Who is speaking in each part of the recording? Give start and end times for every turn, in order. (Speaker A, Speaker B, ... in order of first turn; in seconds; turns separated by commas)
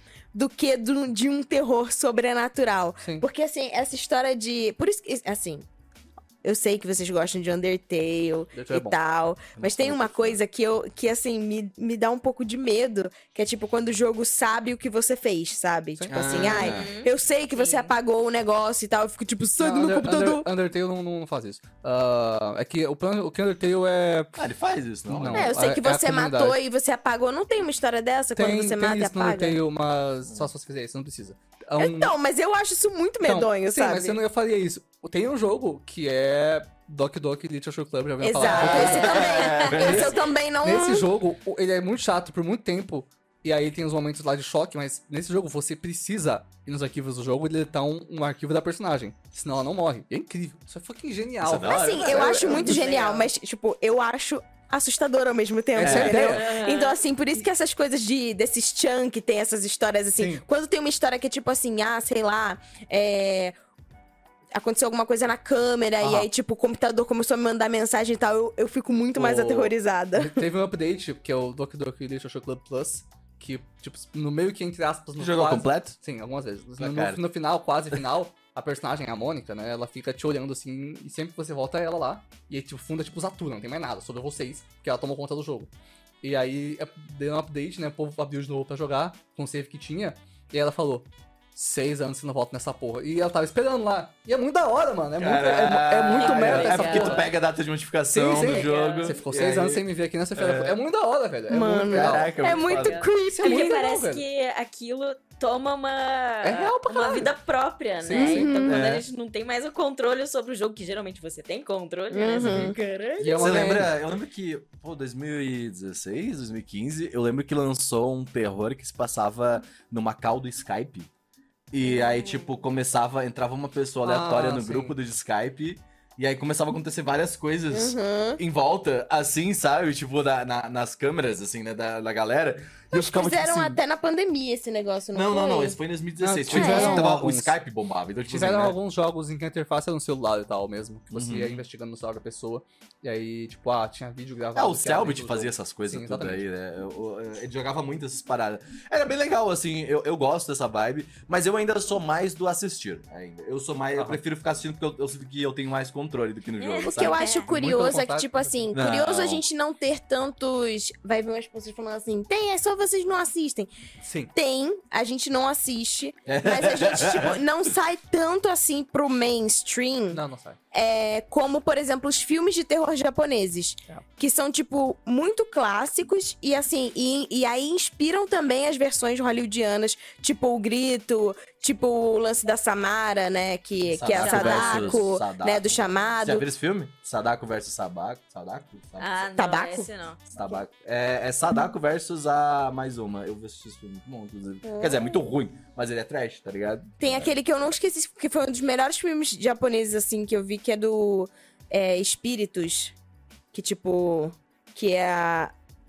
Speaker A: 0.3-5.7, Speaker B: 3.0-3.3, Speaker A: 6.4-20.5, Speaker B: 8.5-9.0, Speaker C: 9.6-10.4, Speaker B: 16.0-16.8, Speaker C: 16.1-16.9, Speaker D: 16.4-17.9, Speaker B: 19.6-24.4, Speaker C: 24.4-25.5, Speaker B: 25.1-26.6, Speaker A: 25.3-29.6, Speaker B: 28.4-32.1, Speaker A: 31.8-34.2, Speaker B: 33.2-53.0, Speaker A: 38.2-41.1, Speaker C: 38.4-40.2, Speaker D: 38.5-39.7, Speaker C: 51.4-52.8, Speaker A: 51.6-63.6, Speaker D: 52.4-53.3, Speaker B: 55.8-56.5, Speaker C: 55.8-56.2, Speaker D: 56.1-57.0, Speaker B: 60.2-60.4, Speaker A: 64.5-70.4, Speaker B: 66.0-66.3, Speaker B: 69.1-85.7, Speaker C: 75.2-76.0, Speaker C: 76.8-77.2, Speaker B: 86.2-97.3, Speaker C: 95.2-99.8, Speaker D: 96.2-97.3, Speaker B: 98.1-102.3, Speaker D: 98.4-99.2, Speaker C: 100.4-100.8, Speaker A: 101.5-103.8, Speaker C: 101.9-103.0, Speaker D: 102.4-113.7, Speaker B: 103.2-104.2, Speaker B: 106.4-107.3, Speaker B: 108.0-108.6, Speaker A: 108.1-108.8, Speaker C: 108.7-109.1, Speaker A: 112.1-112.8, Speaker B: 112.3-113.9, Speaker C: 113.4-121.1, Speaker C: 121.7-133.8, Speaker B: 124.0-125.0, Speaker A: 127.7-128.4, Speaker A: 132.9-135.8, Speaker C: 135.1-138.8, Speaker B: 136.2-137.6, Speaker A: 136.5-137.1, Speaker B: 138.3-146.4, Speaker C: 141.1-141.6, Speaker C: 144.6-157.3, Speaker B: 153.9-154.2, Speaker D: 156.6-157.5, Speaker A: 156.9-163.7, Speaker B: 157.5-158.8, Speaker C: 158.7-159.4, Speaker B: 164.0-164.3, Speaker A: 164.3-170.2, Speaker C: 166.3-167.4, Speaker B: 170.1-170.6, Speaker A: 170.7-186.4, Speaker C: 183.9-189.2, Speaker D: 184.2-185.0, Speaker D: 189.0-190.2, Speaker A: 189.4-189.9, Speaker C: 190.3-197.3, Speaker A: 194.6-195.2, Speaker A: 197.0-202.9, Speaker A: 203.5-205.5